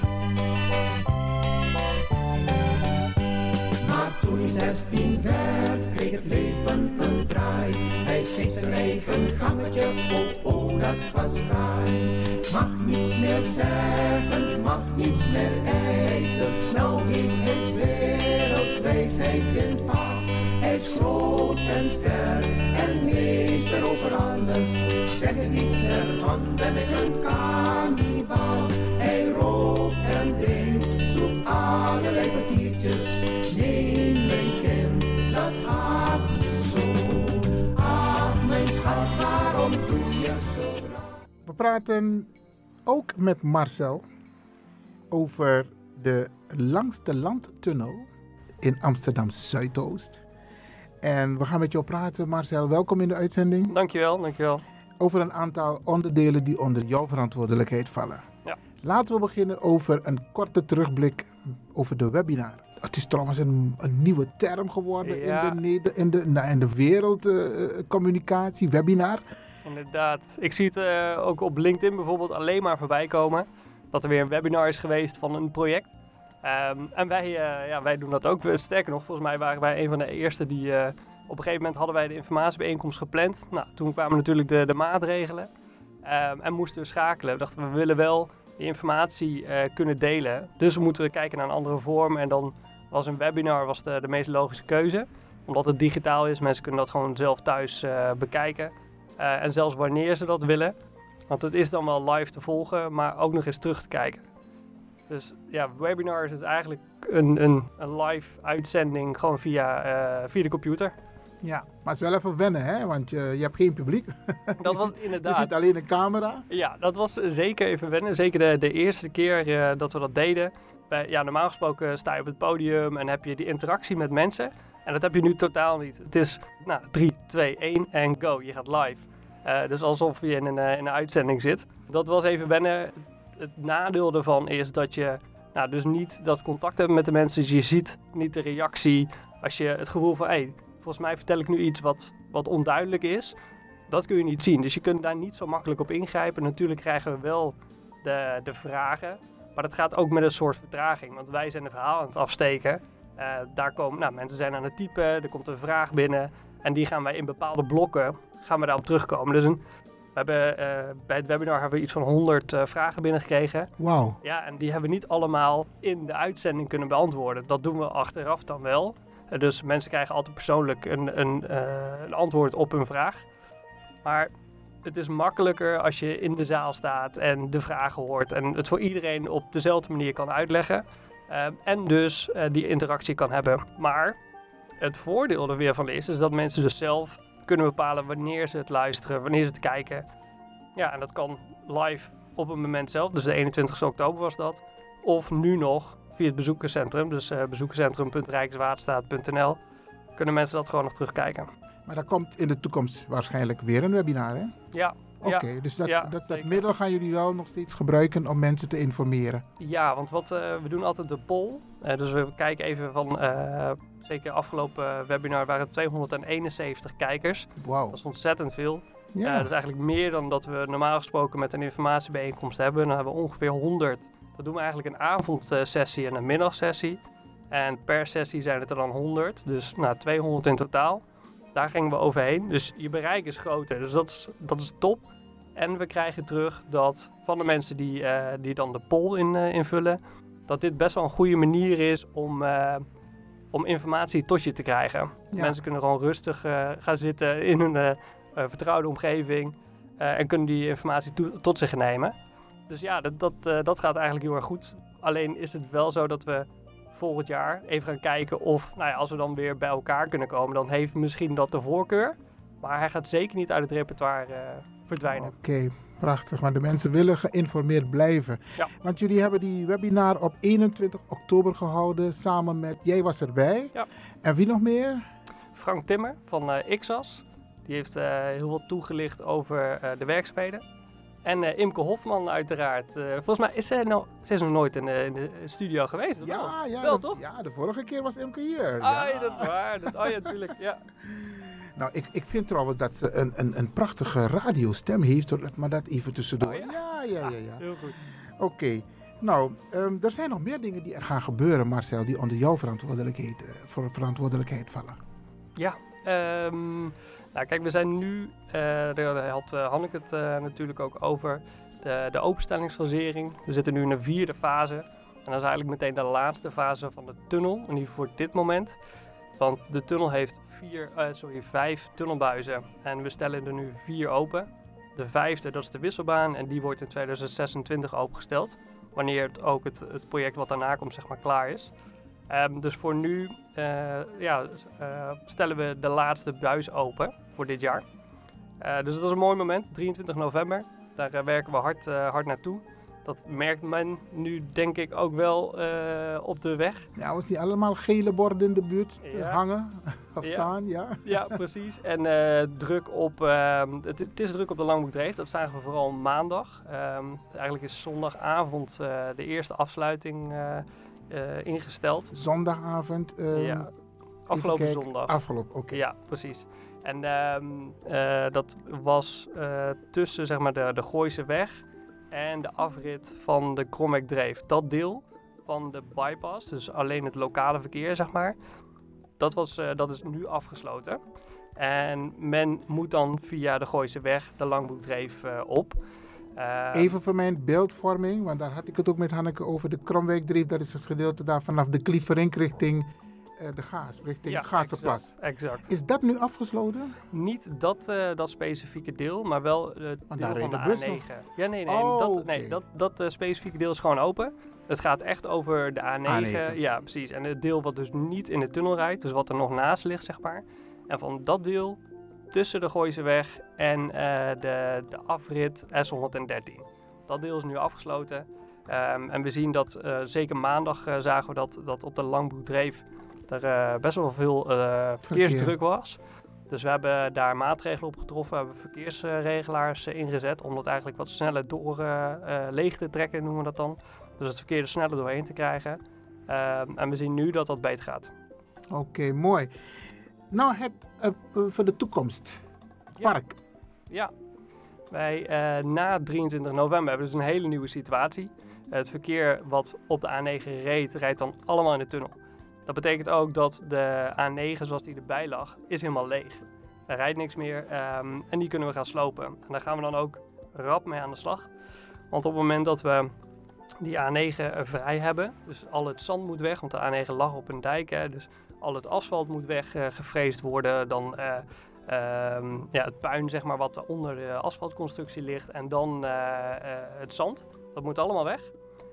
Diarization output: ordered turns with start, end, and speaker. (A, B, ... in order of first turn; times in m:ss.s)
0:03.8-0:41.0 A
0:41.4-0:42.3 B
0:42.9-0:44.0 B
0:45.1-0:48.1 B
0:48.6-0:50.2 B
0:51.0-0:53.7 B
0:53.7-0:54.6 C
0:55.0-0:58.2 B
0:58.8-1:09.2 B
1:05.0-1:05.6 C
1:09.6-1:15.9 C
1:16.4-1:25.5 C
1:26.0-1:40.7 C
1:41.3-1:44.2 C
1:45.1-1:50.9 C
1:51.4-1:56.4 B
1:54.6-1:55.6 C
1:56.5-2:23.4 C
2:23.9-2:39.6 C
2:40.2-2:43.7 C
2:43.8-2:44.2 B
2:44.2-2:53.2 C
2:54.0-2:54.3 C
2:54.8-3:04.2 C
3:04.8-3:10.1 C
3:10.8-3:19.6 C
3:20.2-3:21.5 C
3:21.9-3:24.5 B
3:24.7-3:26.7 C
3:25.2-3:29.4 B
3:29.6-3:47.0 C
3:37.6-3:38.0 B
3:39.1-3:39.5 B
3:47.5-3:51.0 C
3:51.5-4:02.8 C
4:03.5-4:12.2 C
4:12.7-4:25.4 C
4:25.1-4:35.0 B
4:35.6-4:40.6 C
4:41.2-4:47.2 C
4:46.2-4:50.3 B
4:48.8-4:50.8 C
4:51.6-4:57.7 B
4:56.4-4:58.0 C
4:58.3-5:05.0 B
5:05.6-5:18.8 C
5:19.4-5:31.7 C
5:32.3-5:37.8 C
5:38.6-5:46.9 C
5:47.0-5:51.3 B
5:49.0-5:49.4 C
5:50.2-5:50.5 C
5:51.1-6:02.1 C
6:02.1-6:03.7 B
6:03.3-6:03.7 C
6:04.3-6:05.8 B
6:04.3-6:18.4 C
6:19.2-6:21.0 C
6:21.6-6:25.8 C
6:26.4-6:27.0 C
6:26.7-6:35.1 B
6:34.3-6:35.7 C
6:35.7-6:37.0 B
6:37.1-6:51.8 C
6:40.1-6:41.0 B
6:41.7-6:42.6 B
6:46.1-6:46.6 B
6:52.3-7:18.1 C
7:05.1-7:05.5 B
7:18.7-7:19.5 B
7:20.3-7:22.5 B
7:23.0-7:23.4 B
7:24.9-7:41.5 C
7:42.1-7:43.1 C
7:43.8-7:58.5 C